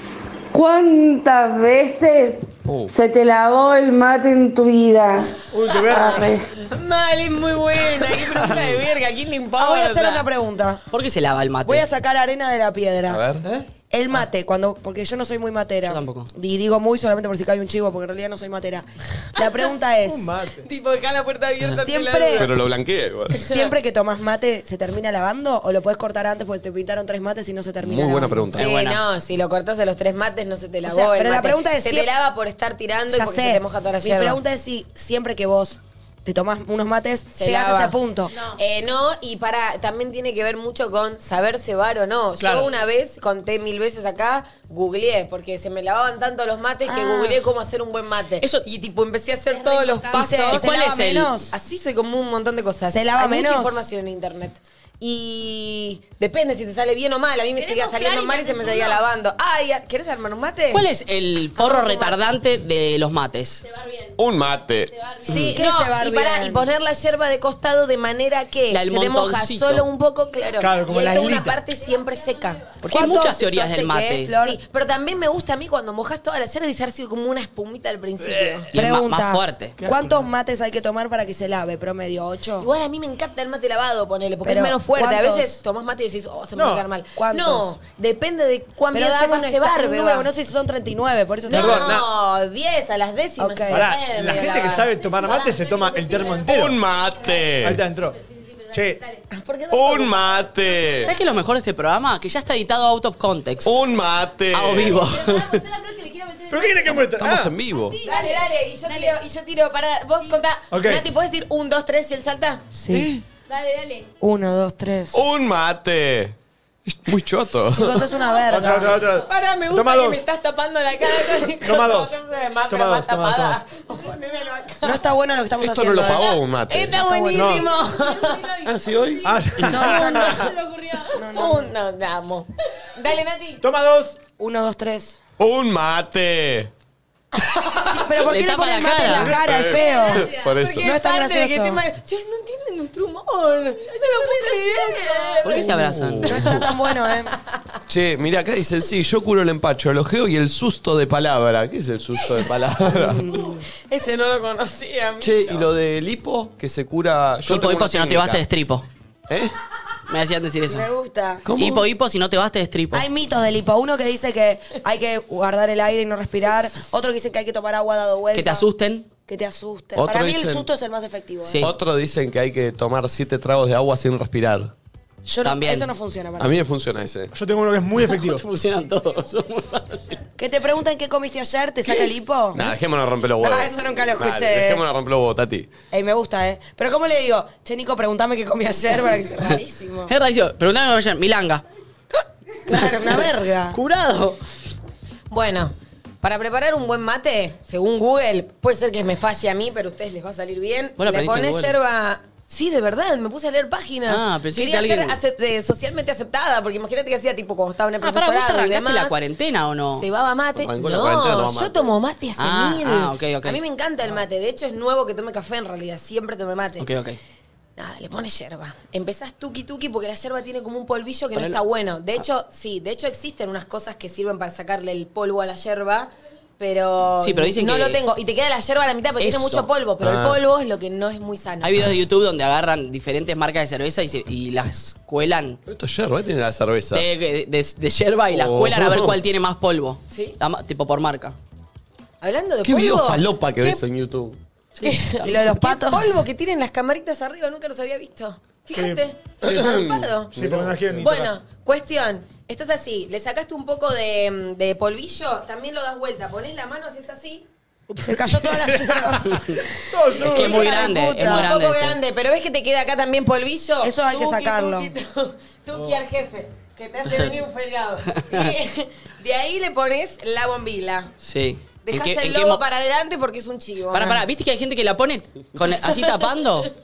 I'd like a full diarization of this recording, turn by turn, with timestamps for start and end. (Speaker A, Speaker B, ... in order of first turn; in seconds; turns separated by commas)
Speaker A: 0.5-6.5, Speaker B: 5.5-6.3, Speaker C: 6.0-10.3, Speaker B: 8.2-8.6, Speaker D: 9.6-10.8, Speaker E: 10.9-11.9, Speaker D: 11.7-13.2, Speaker F: 13.1-13.5, Speaker B: 13.4-14.2, Speaker D: 13.9-20.4, Speaker E: 15.9-16.3, Speaker B: 20.0-20.7, Speaker C: 20.6-22.7, Speaker D: 21.7-22.5, Speaker F: 22.4-23.4, Speaker C: 23.3-23.7, Speaker D: 23.4-28.6, Speaker F: 27.8-28.6, Speaker E: 28.6-29.0, Speaker C: 28.6-34.4, Speaker D: 30.8-32.1, Speaker D: 33.1-38.4, Speaker C: 37.4-38.0, Speaker G: 38.3-38.6, Speaker C: 38.5-50.6, Speaker B: 42.4-42.7, Speaker D: 46.9-47.4, Speaker E: 48.4-48.6, Speaker G: 49.5-50.4, Speaker D: 50.1-51.6, Speaker E: 50.5-51.4, Speaker C: 51.5-60.9, Speaker D: 52.9-53.9, Speaker G: 57.6-59.0, Speaker E: 60.7-63.6, Speaker C: 61.6-62.2, Speaker G: 63.6-64.2, Speaker F: 64.2-64.9, Speaker G: 64.9-65.6, Speaker C: 65.3-78.7, Speaker D: 65.3-66.7, Speaker E: 68.7-69.9, Speaker B: 70.6-71.6, Speaker G: 71.8-72.7, Speaker D: 72.8-73.6, Speaker E: 72.8-74.3, Speaker D: 74.2-74.6, Speaker E: 78.7-79.8, Speaker D: 78.7-82.7, Speaker B: 79.8-80.3, Speaker C: 82.6-90.3, Speaker D: 84.4-85.6, Speaker B: 86.5-86.9, Speaker D: 87.2-87.8, Speaker D: 88.9-92.0, Speaker C: 91.5-94.9, Speaker B: 91.5-92.1, Speaker D: 93.4-93.9, Speaker B: 93.7-96.8, Speaker G: 94.8-99.2, Speaker F: 96.5-97.8, Speaker B: 97.6-98.2, Speaker B: 98.7-99.0, Speaker C: 99.3-100.6, Speaker F: 99.7-101.1, Speaker G: 100.6-101.2, Speaker E: 101.0-103.7, Speaker F: 103.6-105.0, Speaker E: 104.5-105.5, Speaker G: 104.7-107.1, Speaker B: 106.5-107.6, Speaker F: 107.1-108.0, Speaker G: 107.7-109.2, Speaker C: 108.0-112.6, Speaker B: 110.7-111.1, Speaker D: 112.7-113.1, Speaker F: 112.9-113.2, Speaker G: 113.5-114.1, Speaker D: 114.2-115.2, Speaker F: 115.1-118.0, Speaker D: 117.7-119.0, Speaker B: 118.5-120.2, Speaker C: 119.1-125.0, Speaker B: 121.6-123.6, Speaker D: 124.8-126.4, Speaker F: 125.6-127.0, Speaker C: 126.7-128.5, Speaker D: 126.9-127.7, Speaker B: 127.3-127.7, Speaker G: 127.6-131.4, Speaker F: 128.7-129.3, Speaker B: 129.2-130.4, Speaker D: 129.6-130.5, Speaker C: 129.9-130.4, Speaker D: 131.1-131.7, Speaker C: 131.3-133.6, Speaker B: 133.6-134.2, Speaker D: 134.4-135.2, Speaker F: 135.4-136.7, Speaker D: 137.9-140.3, Speaker E: 138.2-139.4, Speaker F: 139.3-140.9, Speaker G: 139.6-140.6, Speaker C: 140.5-147.0, Speaker D: 140.8-141.8, Speaker G: 144.2-145.4, Speaker E: 145.4-146.4, Speaker F: 145.9-146.7, Speaker D: 146.3-147.3, Speaker F: 147.9-153.3, Speaker D: 152.9-153.6, Speaker C: 153.3-155.7, Speaker F: 155.2-158.4, Speaker E: 157.5-158.9, Speaker F: 159.3-159.5, Speaker E: 160.1-160.9, Speaker D: 160.7-161.5, Speaker F: 161.5-161.9, Speaker E: 161.6-163.1, Speaker D: 162.9-168.7, Speaker E: 168.3-169.1, Speaker D: 169.3-171.7, Speaker F: 170.0-170.7, Speaker F: 171.6-174.7, Speaker D: 175.2-176.6, Speaker E: 175.4-175.9, Speaker F: 176.4-177.3, Speaker B: 177.3-178.4, Speaker E: 178.0-180.2, Speaker D: 180.4-182.7, Speaker F: 182.5-185.7, Speaker D: 183.4-184.8, Speaker D: 185.9-190.1, Speaker E: 190.1-191.6, Speaker D: 192.7-193.8, Speaker E: 193.7-194.4, Speaker C: 195.3-209.2, Speaker E: 201.0-201.8, Speaker E: 204.1-205.2, Speaker E: 208.0-210.1, Speaker C: 209.9-216.9, Speaker F: 210.6-211.9, Speaker E: 212.4-213.6, Speaker E: 216.8-217.2, Speaker C: 217.8-231.9, Speaker E: 221.3-221.6, Speaker E: 227.2-228.0, Speaker E: 229.2-229.7, Speaker F: 230.0-230.4, Speaker E: 231.6-235.6, Speaker F: 235.7-237.1, Speaker E: 236.9-241.4, Speaker F: 238.3-239.2, Speaker C: 240.1-240.4, Speaker C: 242.2-243.8, Speaker F: 242.6-244.4, Speaker E: 244.8-245.3, Speaker C: 244.8-250.4, Speaker D: 245.2-246.3, Speaker B: 248.8-249.0, Speaker F: 249.4-250.8, Speaker B: 250.3-251.3, Speaker C: 251.0-257.5, Speaker B: 257.9-260.8, Speaker D: 258.0-259.6, Speaker E: 260.2-262.0, Speaker D: 260.2-261.5, Speaker C: 260.4-271.1, Speaker D: 263.8-264.9, Speaker E: 268.2-268.5, Speaker E: 271.2-272.6, Speaker C: 271.8-274.2, Speaker E: 273.9-276.7, Speaker C: 275.6-276.6